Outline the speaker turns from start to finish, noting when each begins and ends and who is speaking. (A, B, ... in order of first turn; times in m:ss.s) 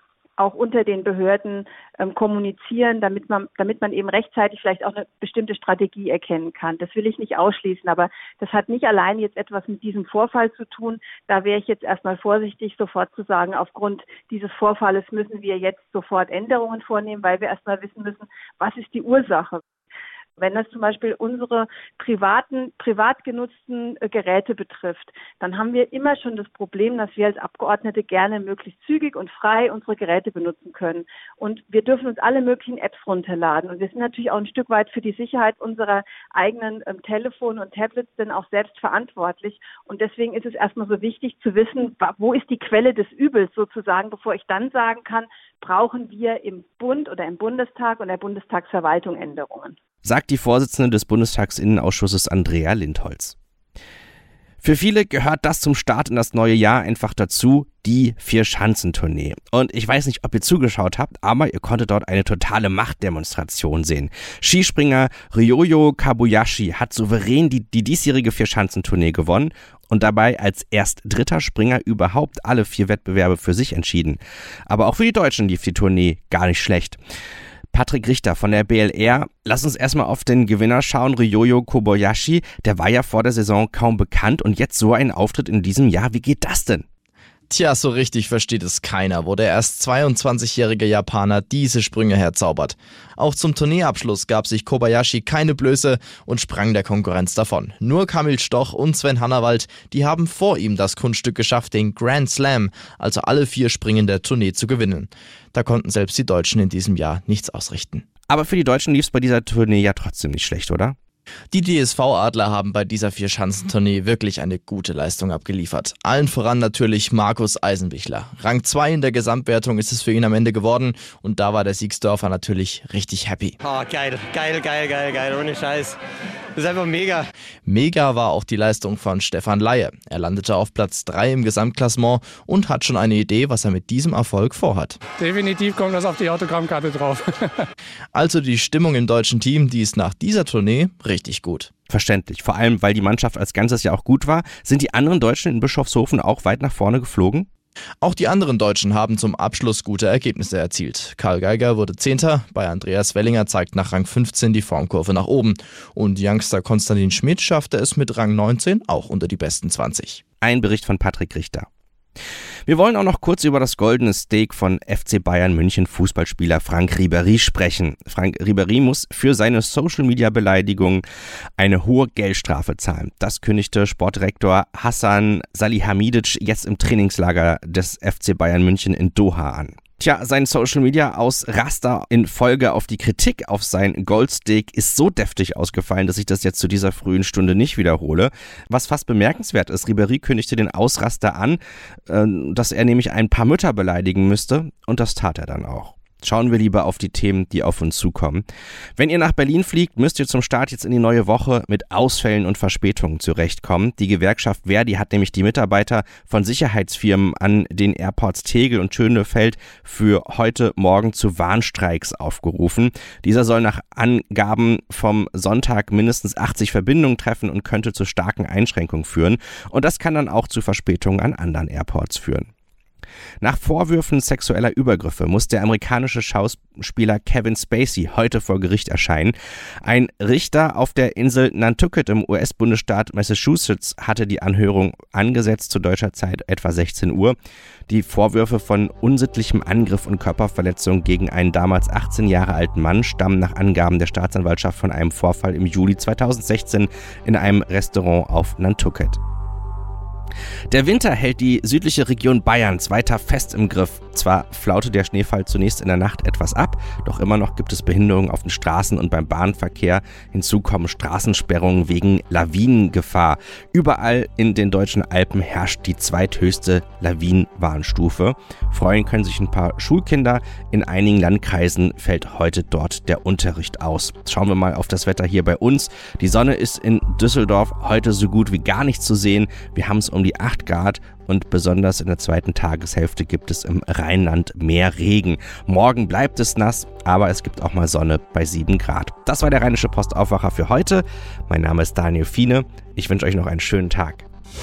0:00.4-0:19.6 A
0:20.4-0:49.7 A
0:50.0-0:53.4 B
0:54.6-1:17.0 B
1:17.7-1:26.8 B
1:27.5-1:48.0 C
1:48.3-1:51.0 B
1:51.5-2:03.6 C
2:03.7-2:06.0 D
2:06.6-2:07.2 D
2:07.7-2:15.0 C
2:15.2-2:17.7 E
2:18.1-2:21.7 C
2:21.9-2:27.5 B
2:28.0-2:40.2 C
2:40.4-2:41.7 B
2:42.7-2:51.0 B
2:51.6-3:18.4 B
3:19.0-3:42.5 B
3:43.4-3:57.3 B
3:57.9-4:09.2 B
4:10.7-4:54.2 B